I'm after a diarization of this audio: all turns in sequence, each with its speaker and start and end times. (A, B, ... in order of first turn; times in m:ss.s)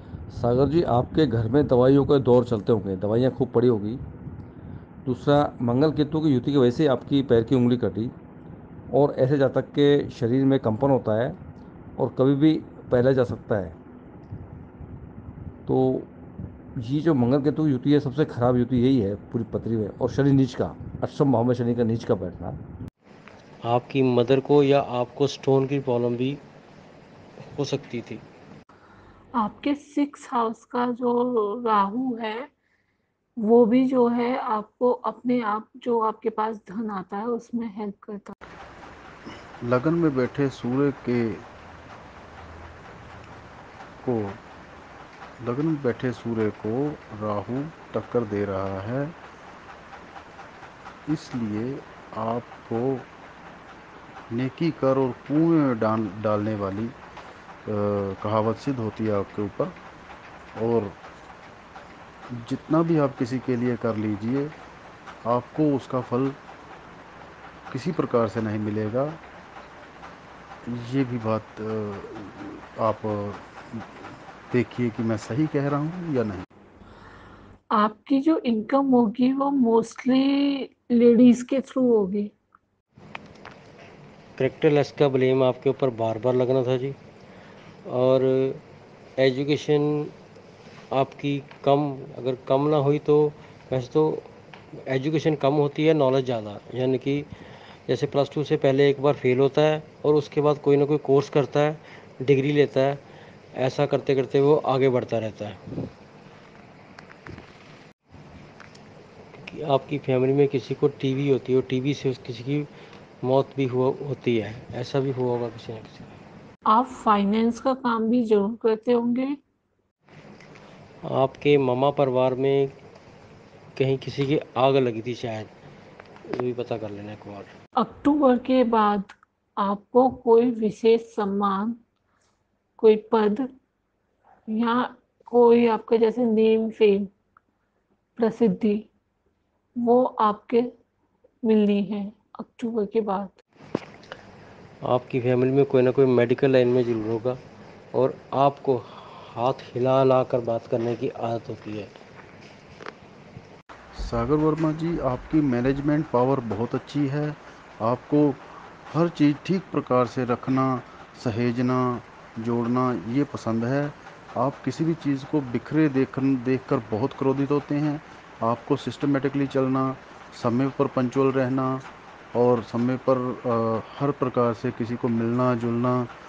0:00.3-0:04.0 A
0:05.0-0:08.1 A
0:08.9-0:11.4 A
0:12.0-0:13.8 A
0:15.6-0:16.1 A
0:16.8-0:22.6 A
0:23.6-0:26.4 B
0:27.5-0:28.2 B
0:29.4-0:32.5 C
0:33.4-0:38.4 C
0:39.6-0:41.4 D
0:44.0-0:44.4 D
0:45.4-0:49.1 D
0:51.1-0:53.1 D
0:54.3-0:56.9 D
0:57.6-0:59.7 D
1:00.6-1:01.0 D
1:02.3-1:04.5 D
1:05.2-1:06.4 D
1:07.7-1:09.2 D
1:10.6-1:16.4 D
1:17.7-1:22.3 C
1:24.4-1:27.0 B
1:27.9-1:28.6 B
1:29.2-1:30.1 B
1:30.9-1:34.3 B
1:34.9-1:37.3 B
1:37.9-1:43.0 B
1:43.6-1:45.6 B
1:49.4-1:52.7 B
1:53.2-1:56.2 B
1:56.7-1:59.4 C
2:01.0-2:02.7 B
2:03.8-2:05.5 B
2:06.3-2:07.5 B
2:07.8-2:11.8 C
2:12.8-2:13.5 C
2:14.5-2:17.1 C
2:18.2-2:18.9 C
2:19.8-2:20.7 C
2:21.4-2:23.4 C
2:24.8-2:27.4 B
2:27.9-2:31.9 B
2:33.9-2:56.1 D